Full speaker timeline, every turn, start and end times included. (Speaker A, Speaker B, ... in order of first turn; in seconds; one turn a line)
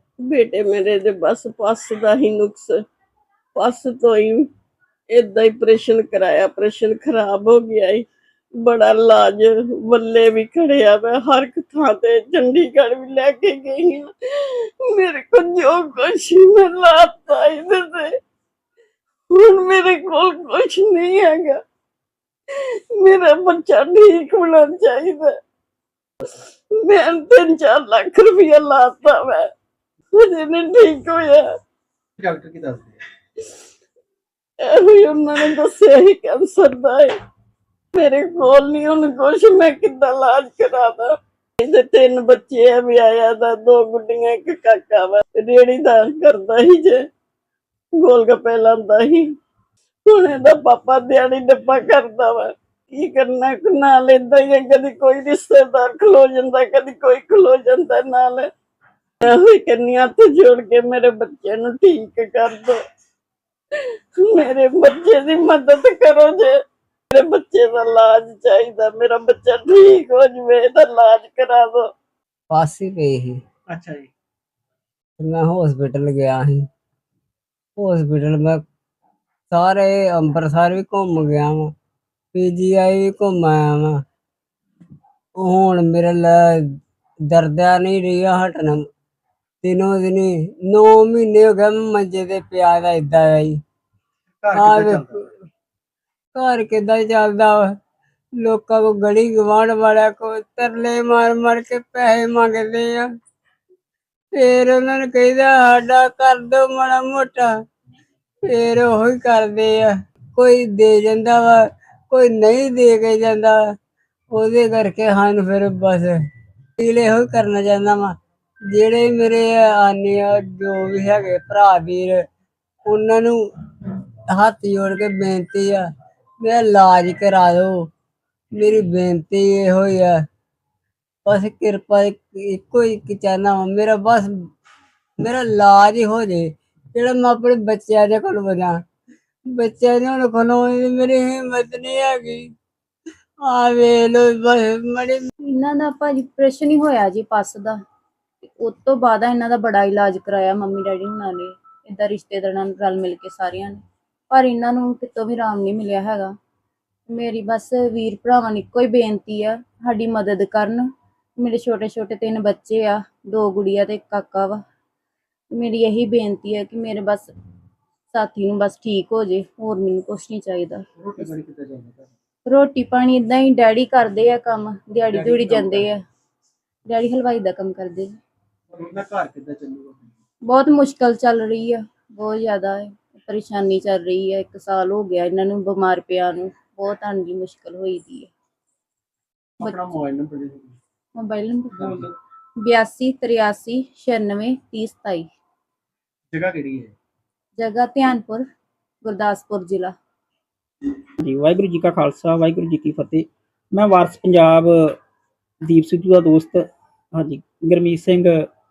Speaker A: 0.2-2.7
Speaker A: 3.5-4.4
Speaker A: 5.1-8.1
Speaker A: 8.6-18.1
Speaker A: 19.3-21.6
Speaker A: 22.9-25.3
Speaker A: 26.8-29.4
Speaker A: 30.1-31.4
Speaker B: 32.2-33.0
Speaker A: 34.6-37.1
Speaker A: 37.9-41.1
Speaker A: 41.6-47.0
Speaker A: 48.0-49.2
Speaker A: 50.1-58.5
Speaker A: 59.2-62.8
Speaker A: 63.8-66.5
Speaker A: 67.1-71.9
Speaker C: 72.5-73.4
Speaker B: 73.7-74.1
Speaker C: 75.2-76.7
Speaker C: 77.8-78.6
Speaker C: 79.5-81.7
Speaker C: 82.3-84.0
Speaker C: 85.3-86.7
Speaker C: 87.3-88.8
Speaker C: 89.6-93.6
Speaker B: 94.4-95.2
Speaker C: 94.5-95.2
Speaker C: 96.3-97.7
Speaker C: 98.4-103.1
Speaker C: 104.3-107.5
Speaker C: 108.5-113.7
Speaker C: 114.3-116.2
Speaker C: 116.8-118.1
Speaker C: 118.7-122.2
Speaker C: 122.9-123.4
Speaker C: 124.3-125.8
Speaker C: 126.4-127.9
Speaker C: 128.6-130.2
Speaker C: 131.2-134.3
Speaker C: 135.2-138.8
Speaker C: 139.5-142.4
Speaker C: 143.4-145.3
Speaker D: 145.5-147.8
Speaker D: 148.4-156.3
Speaker D: 157.1-164.6
Speaker D: 165.5-167.3
Speaker D: 168.1-171.2
Speaker B: 171.0-172.1
Speaker D: 172.4-176.0
Speaker B: 175.1-175.9
Speaker D: 176.8-178.1
Speaker B: 178.7-180.1
Speaker D: 180.5-188.3
Speaker B: 189.6-190.8
Speaker D: 191.1-192.0
Speaker B: 191.7-192.1
Speaker D: 192.6-195.3
Speaker B: 196.3-196.9
Speaker D: 197.6-198.4
Speaker D: 199.0-199.9
Speaker E: 201.2-205.0
Speaker E: 205.6-206.6
Speaker E: 207.1-208.4